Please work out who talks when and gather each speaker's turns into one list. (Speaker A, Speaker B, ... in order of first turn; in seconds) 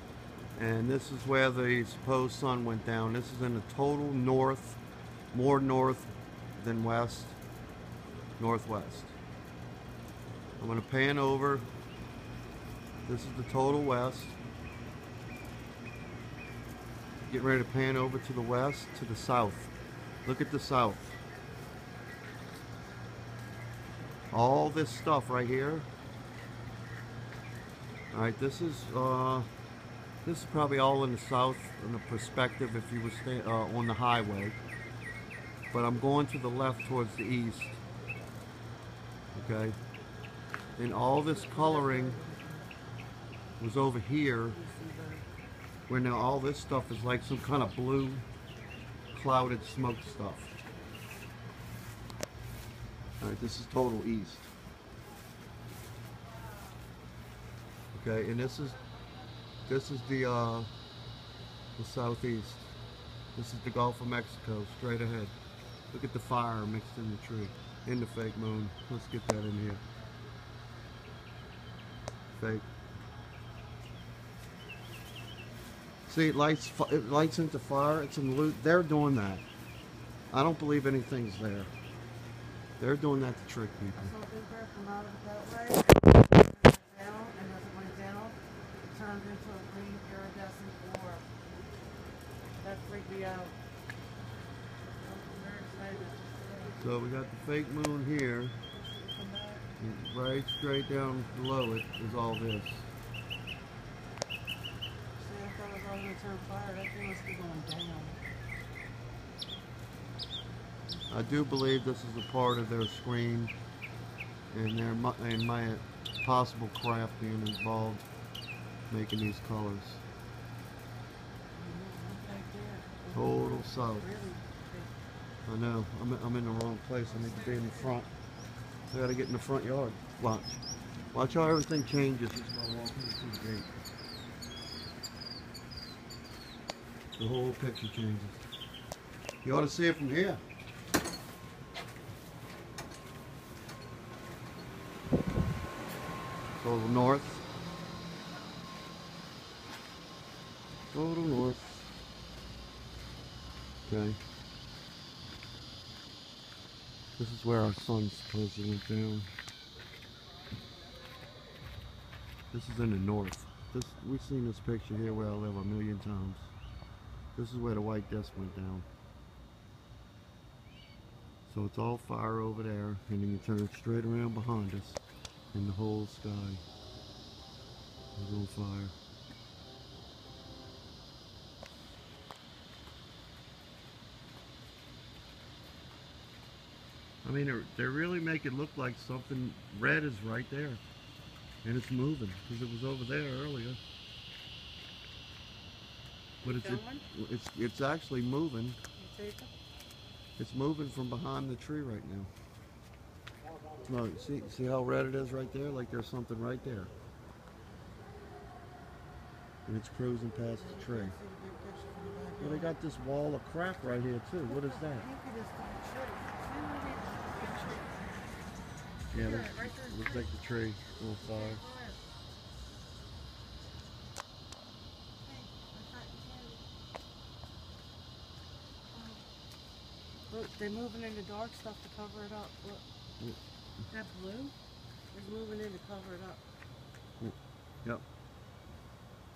Speaker A: 0.6-4.8, 5.3-7.4, 8.4-9.1, 10.6-11.7, 13.1-14.4, 17.3-19.7, 20.2-21.2, 24.3-25.9, 28.1-29.5, 30.2-34.6, 35.7-37.8, 39.3-39.8, 40.8-42.2, 43.6-44.6, 45.9-48.2, 49.1-50.5, 53.2-54.5, 57.9-58.8, 59.6-60.7, 61.8-62.7, 63.4-65.3, 65.9-69.8, 72.4-72.7, 76.1-79.5, 80.3-81.7, 82.8-84.1, 96.8-98.5, 99.8-102.9, 111.1-113.5, 114.5-118.0, 118.9-120.0, 123.1-124.1, 125.5-128.1, 128.9-130.6, 131.1-133.7, 137.2-138.4, 139.4-140.4, 146.6-147.4, 150.9-151.9, 153.9-154.2, 157.2-159.3, 162.5-166.5, 167.3-168.8, 171.5-175.0, 175.5-176.6, 178.2-178.9, 187.2-190.8, 191.6-193.8, 196.4-198.8, 200.4-202.3, 203.8-206.9, 209.7-211.1, 212.4-215.1, 219.1-221.6, 237.2-238.0
Speaker B: 41.2-42.7, 44.5-45.2, 84.0-88.4, 88.9-91.2, 92.6-93.5, 94.9-96.8, 98.7-99.7, 105.2-108.2, 121.5-125.0, 127.1-128.0, 196.4-197.0, 199.0-199.5, 210.6-212.7, 214.4-218.3, 219.1-220.3, 221.2-222.0, 225.2-226.6, 228.9-229.2, 230.3-232.8, 233.9-234.5, 235.1-236.4